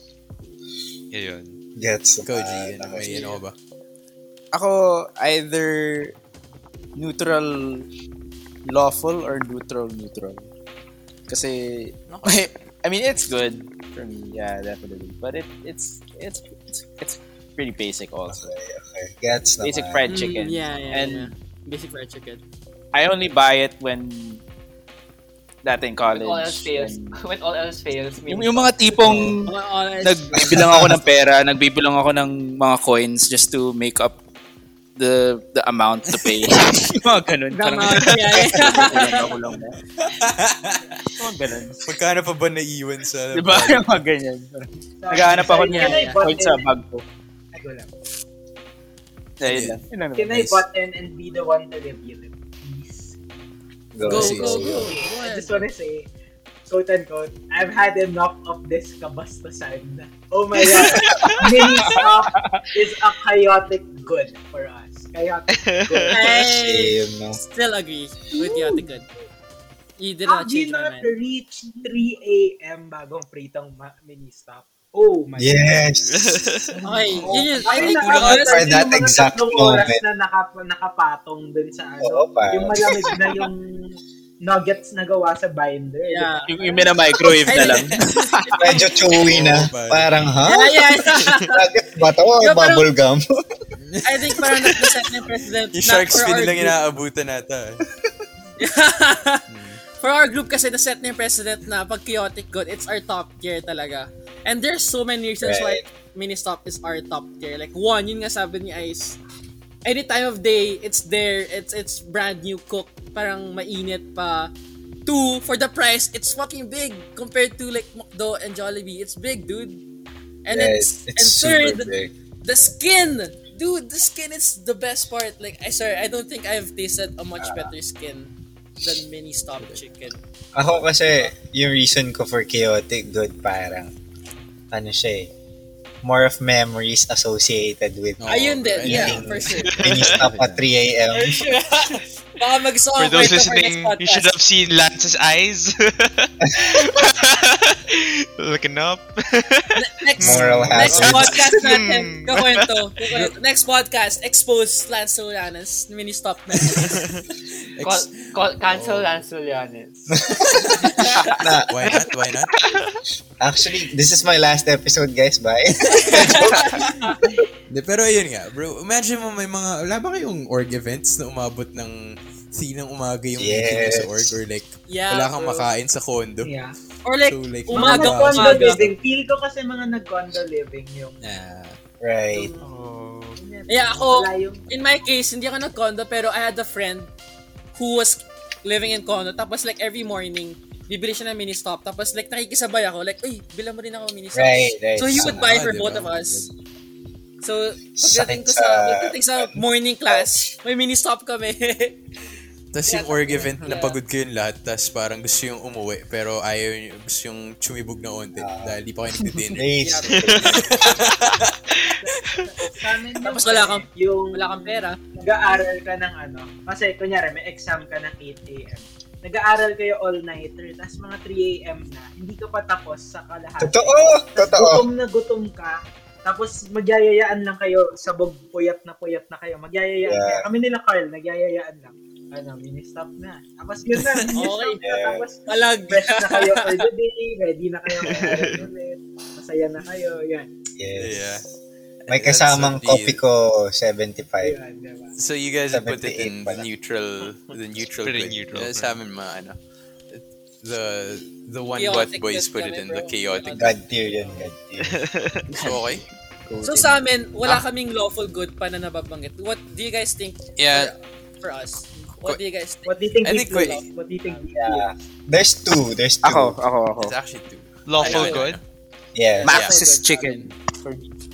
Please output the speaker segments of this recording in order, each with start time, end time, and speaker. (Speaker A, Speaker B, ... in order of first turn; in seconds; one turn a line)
Speaker A: 1.1-1.6
Speaker B: 1.8-3.2
Speaker C: 2.2-3.5
Speaker D: 3.1-3.4
Speaker E: 4.5-6.1
Speaker E: 7.0-7.8
Speaker E: 8.7-10.5
Speaker E: 11.3-18.5
Speaker C: 12.1-12.5
Speaker B: 18.3-20.0
Speaker E: 19.6-21.3
Speaker D: 20.1-22.4
Speaker E: 22.9-24.4
Speaker E: 25.6-27.1
Speaker F: 26.1-29.3
Speaker E: 28.2-34.2
Speaker D: 29.4-30.5
Speaker B: 30.4-31.0
Speaker E: 35.0-39.8
Speaker D: 37.5-39.3
Speaker C: 40.0-41.0
Speaker E: 41.2-41.9
Speaker C: 41.9-44.0
Speaker E: 43.3-47.0
Speaker G: 45.0-46.7
Speaker D: 45.7-46.2
Speaker G: 47.5-47.9
Speaker E: 49.4-50.6
Speaker C: 49.4-49.8
Speaker G: 50.1-53.2
Speaker B: 53.9-55.0
Speaker D: 54.0-55.6
Speaker C: 54.0-54.7
Speaker G: 54.4-56.1
Speaker G: 56.7-66.4
Speaker A: 61.0-61.4
Speaker E: 61.8-62.6
Speaker A: 65.5-66.2
Speaker D: 66.1-69.1
Speaker B: 66.3-67.4
Speaker G: 68.3-68.9
Speaker D: 70.0-71.1
Speaker G: 70.2-75.9
Speaker B: 75.4-76.5
Speaker A: 76.0-76.8
Speaker G: 76.8-87.8
Speaker D: 76.8-78.7
Speaker A: 77.7-78.5
Speaker B: 78.5-80.0
Speaker B: 82.0-83.2
Speaker D: 86.1-86.5
Speaker E: 86.5-88.7
Speaker D: 87.2-89.0
Speaker B: 88.6-93.4
Speaker C: 89.2-90.1
Speaker D: 90.4-91.6
Speaker D: 92.4-92.9
Speaker C: 93.8-94.4
Speaker D: 94.0-96.8
Speaker C: 95.7-97.8
Speaker D: 98.6-99.4
Speaker C: 99.5-99.8
Speaker D: 100.0-109.2
Speaker B: 105.4-105.8
Speaker D: 109.8-114.5
Speaker D: 115.0-119.8
Speaker D: 120.4-121.9
Speaker B: 120.5-122.1
Speaker D: 122.4-130.2
Speaker B: 127.4-127.7
Speaker B: 130.5-133.9
Speaker B: 134.7-135.3
Speaker B: 136.0-141.4
Speaker C: 138.2-140.7
Speaker D: 138.3-139.7
Speaker A: 139.7-140.2
Speaker D: 141.1-144.3
Speaker A: 143.0-152.7
Speaker D: 149.7-157.0
Speaker B: 150.2-151.3
Speaker C: 150.6-151.2
Speaker A: 156.8-157.2
Speaker C: 157.8-159.3
Speaker F: 157.8-160.2
Speaker C: 160.5-161.0
Speaker D: 161.0-161.3
Speaker B: 161.4-161.9
Speaker C: 161.7-162.7
Speaker A: 162.5-163.0
Speaker B: 163.4-166.8
Speaker D: 166.0-167.2
Speaker C: 167.7-176.6
Speaker B: 173.3-174.4
Speaker D: 174.9-175.7
Speaker G: 176.4-176.8
Speaker D: 177.0-178.8
Speaker C: 177.3-178.9
Speaker G: 177.7-181.2
Speaker C: 181.2-181.8
Speaker B: 182.0-182.5
Speaker G: 182.3-182.7
Speaker A: 182.6-183.4
Speaker G: 183.4-184.7
Speaker D: 183.7-187.1
Speaker D: 187.7-196.5
Speaker B: 194.3-195.6
Speaker C: 195.2-196.5
Speaker D: 197.4-202.0
Speaker B: 197.9-200.3
Speaker C: 202.7-211.6
Speaker D: 202.8-204.0
Speaker B: 208.4-208.8
Speaker B: 209.5-210.9
Speaker D: 209.8-210.3
Speaker A: 210.1-210.5
Speaker A: 211.7-212.0
Speaker G: 212.0-240.5
Speaker D: 213.2-215.0
Speaker B: 223.6-224.9
Speaker B: 230.0-230.5
Speaker D: 234.3-234.8
Speaker B: 234.8-235.2
Speaker D: 235.5-236.9
Speaker A: 238.0-238.6
Speaker B: 240.8-241.4
Speaker C: 240.9-241.4
Speaker C: 242.1-243.2
Speaker B: 242.1-244.6
Speaker G: 244.4-245.1
Speaker C: 245.2-249.6
Speaker B: 245.7-246.7
Speaker A: 248.0-248.9
Speaker C: 250.1-253.8
Speaker D: 251.8-253.8
Speaker B: 253.6-255.0
Speaker A: 254.8-255.4
Speaker E: 255.5-257.6
Speaker C: 255.6-256.0
Speaker D: 256.6-262.9
Speaker C: 260.6-260.9
Speaker G: 262.9-264.9
Speaker C: 263.2-263.8
Speaker D: 263.5-263.8
Speaker B: 264.5-266.6
Speaker E: 266.2-267.1
Speaker C: 267.0-268.6
Speaker A: 267.9-268.6
Speaker D: 268.0-268.4
Speaker B: 269.1-269.6
Speaker E: 269.4-271.1
Speaker C: 269.4-270.5
Speaker D: 269.6-270.1